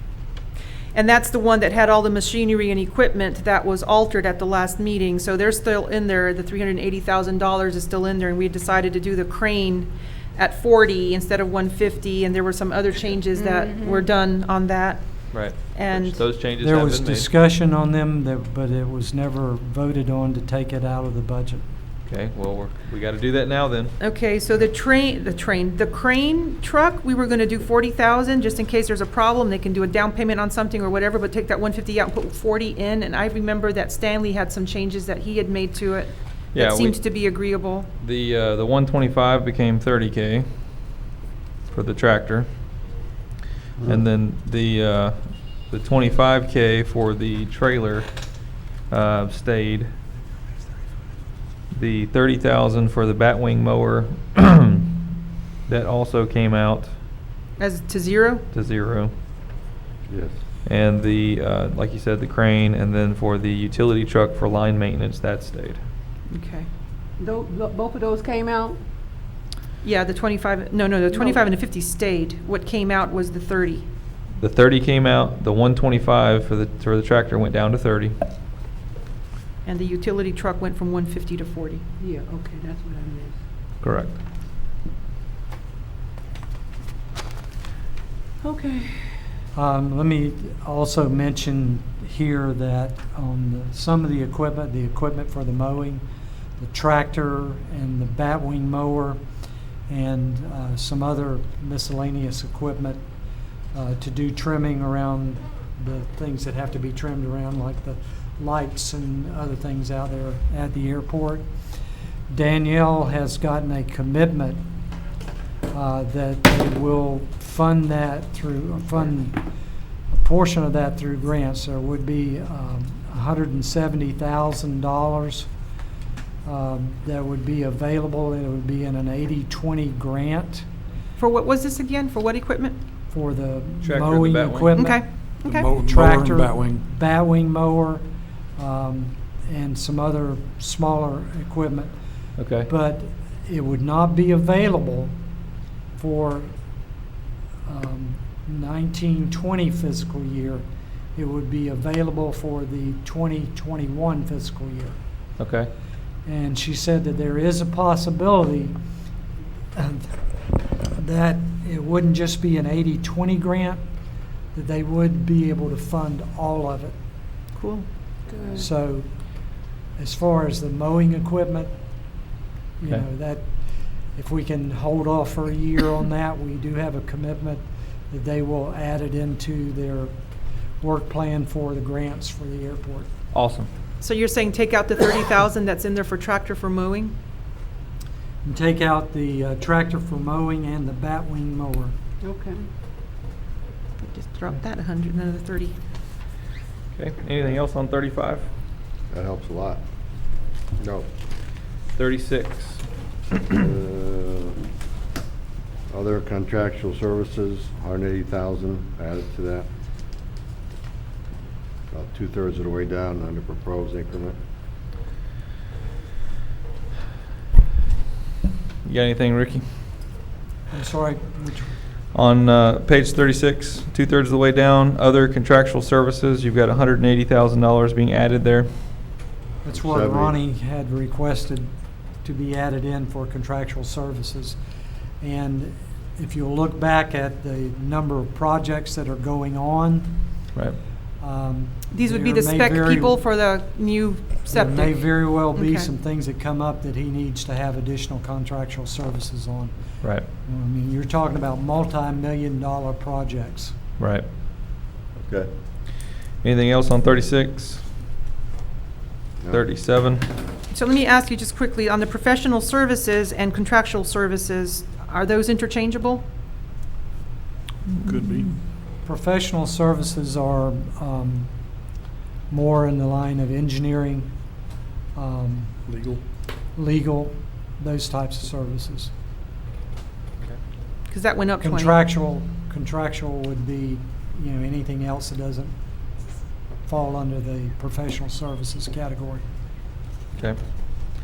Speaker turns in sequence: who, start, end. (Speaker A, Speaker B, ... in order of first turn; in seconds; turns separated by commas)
Speaker A: 0.9-16.2, Speaker B: 13.5-14.0, Speaker C: 15.3-17.3, Speaker D: 16.6-21.6, Speaker C: 22.1-23.9, Speaker A: 24.0-37.9, Speaker C: 36.5-37.0, Speaker C: 38.0-40.5, Speaker C: 41.7-42.5, Speaker C: 43.9-48.1, Speaker C: 48.9-49.9, Speaker C: 51.7-54.9, Speaker C: 55.7-56.9, Speaker A: 57.6-58.5, Speaker C: 58.5-59.1, Speaker E: 60.1-60.4, Speaker C: 60.7-65.8, Speaker A: 66.3-66.7, Speaker B: 67.2-68.8, Speaker A: 69.8-73.9, Speaker B: 71.1-71.4, Speaker C: 74.4-78.2, Speaker A: 79.7-81.8, Speaker B: 82.0-83.4, Speaker C: 83.8-84.2, Speaker B: 88.4-89.4, Speaker D: 89.5-96.0, Speaker D: 96.6-99.2, Speaker D: 99.9-103.0, Speaker D: 103.7-111.5, Speaker D: 112.3-114.6, Speaker D: 115.7-119.4, Speaker D: 120.1-125.5, Speaker D: 126.5-130.7, Speaker A: 131.2-132.8, Speaker D: 133.1-138.0, Speaker C: 133.8-134.9, Speaker A: 134.7-135.7, Speaker F: 135.4-136.8, Speaker D: 138.6-141.9, Speaker C: 142.4-142.7, Speaker D: 142.6-145.1, Speaker D: 146.0-146.5, Speaker D: 147.7-155.0, Speaker C: 155.4-155.7, Speaker D: 156.3-158.8, Speaker D: 159.8-160.2, Speaker D: 160.8-163.8, Speaker D: 164.5-166.9, Speaker A: 167.6-167.9, Speaker B: 168.3-168.7, Speaker D: 168.5-169.1, Speaker D: 170.0-171.7, Speaker D: 172.8-180.1, Speaker D: 180.8-183.1, Speaker C: 183.3-183.7, Speaker A: 184.0-187.2, Speaker D: 188.4-191.9, Speaker B: 192.2-192.7, Speaker A: 194.0-195.8, Speaker C: 196.9-198.5, Speaker E: 199.1-199.8, Speaker E: 200.8-201.1, Speaker C: 201.9-202.8, Speaker E: 203.5-204.6, Speaker E: 205.9-209.7, Speaker E: 211.9-214.4, Speaker C: 218.8-219.7, Speaker D: 220.7-221.8, Speaker C: 222.1-228.7, Speaker D: 229.6-231.7, Speaker E: 229.7-230.3, Speaker D: 232.2-234.6, Speaker D: 235.2-240.1, Speaker D: 241.2-243.2, Speaker A: 241.9-245.9, Speaker D: 244.5-253.8, Speaker C: 254.0-254.2, Speaker E: 255.2-255.5, Speaker C: 256.4-257.8, Speaker C: 259.5-260.2, Speaker A: 260.7-266.2, Speaker C: 267.9-268.5, Speaker F: 268.0-268.6, Speaker D: 269.1-271.5, Speaker D: 272.5-274.3, Speaker D: 275.1-275.8, Speaker F: 275.9-276.2, Speaker D: 276.8-279.1, Speaker A: 281.1-282.0, Speaker D: 281.6-285.7, Speaker D: 286.9-289.4